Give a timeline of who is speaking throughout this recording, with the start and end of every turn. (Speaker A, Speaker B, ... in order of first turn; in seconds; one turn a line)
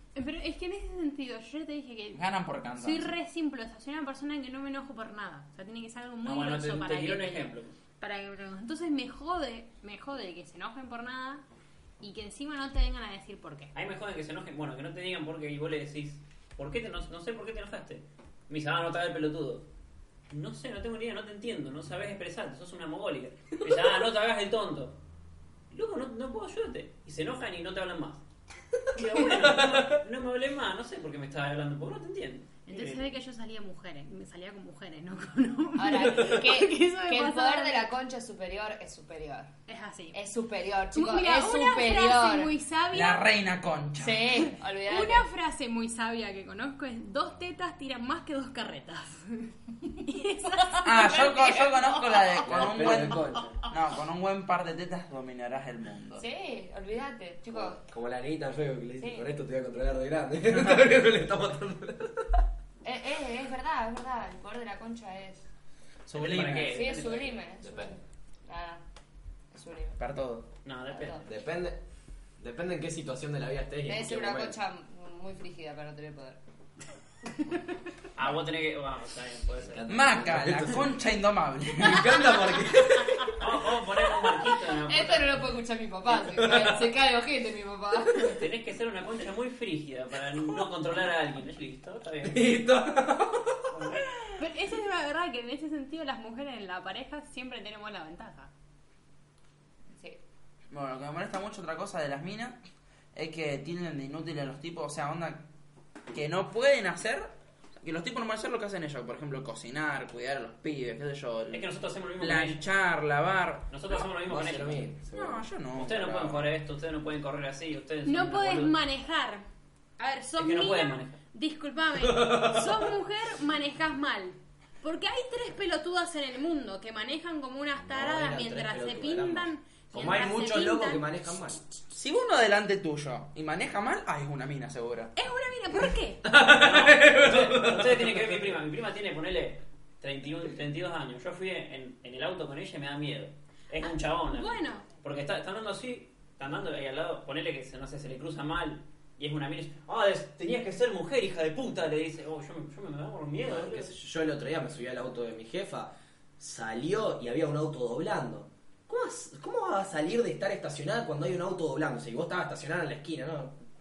Speaker A: 0.1-2.2
Speaker B: 2.1-3.1
Speaker A: 2.8-11.4
Speaker C: 6.2-7.8
Speaker A: 12.0-13.7
Speaker C: 13.7-19.7
Speaker C: 20.3-25.0
Speaker C: 25.7-28.2
Speaker C: 28.9-33.1
Speaker D: 29.2-30.0
Speaker A: 32.7-37.9
Speaker E: 35.8-39.5
Speaker A: 39.7-40.2
Speaker E: 40.1-42.5
Speaker A: 40.9-43.3
Speaker B: 42.9-44.5
Speaker E: 44.0-45.3
Speaker A: 44.9-51.3
Speaker B: 50.8-56.2
Speaker E: 50.9-52.8
Speaker D: 52.4-53.6
Speaker E: 56.1-57.8
Speaker D: 57.5-62.4
Speaker E: 59.0-59.2
Speaker E: 62.8-65.5
Speaker D: 66.1-66.8
Speaker C: 66.1-67.4
Speaker E: 66.6-68.8
Speaker D: 67.6-68.0
Speaker E: 69.5-70.0
Speaker B: 70.0-70.5
Speaker C: 70.6-71.2
Speaker E: 70.9-71.2
Speaker D: 71.2-71.8
Speaker D: 72.4-74.5
Speaker E: 73.8-76.4
Speaker C: 78.1-79.9
Speaker D: 79.6-81.0
Speaker B: 79.9-82.4
Speaker D: 81.8-83.4
Speaker C: 83.4-85.5
Speaker E: 84.8-88.4
Speaker D: 86.1-86.9
Speaker C: 88.4-92.6
Speaker D: 92.2-93.7
Speaker C: 93.7-94.1
Speaker A: 94.4-98.5
Speaker B: 100.7-102.6
Speaker B: 103.1-105.4
Speaker B: 106.1-113.7
Speaker C: 111.5-112.6
Speaker C: 113.7-114.9
Speaker D: 114.2-115.5
Speaker B: 115.1-116.5
Speaker C: 115.7-118.8
Speaker A: 118.0-119.5
Speaker A: 120.0-131.1
Speaker C: 120.4-121.1
Speaker D: 122.0-122.8
Speaker D: 127.8-131.6
Speaker B: 131.9-135.1
Speaker A: 135.2-136.2
Speaker D: 136.2-138.6
Speaker C: 136.4-153.9
Speaker A: 144.3-144.9
Speaker D: 153.4-163.5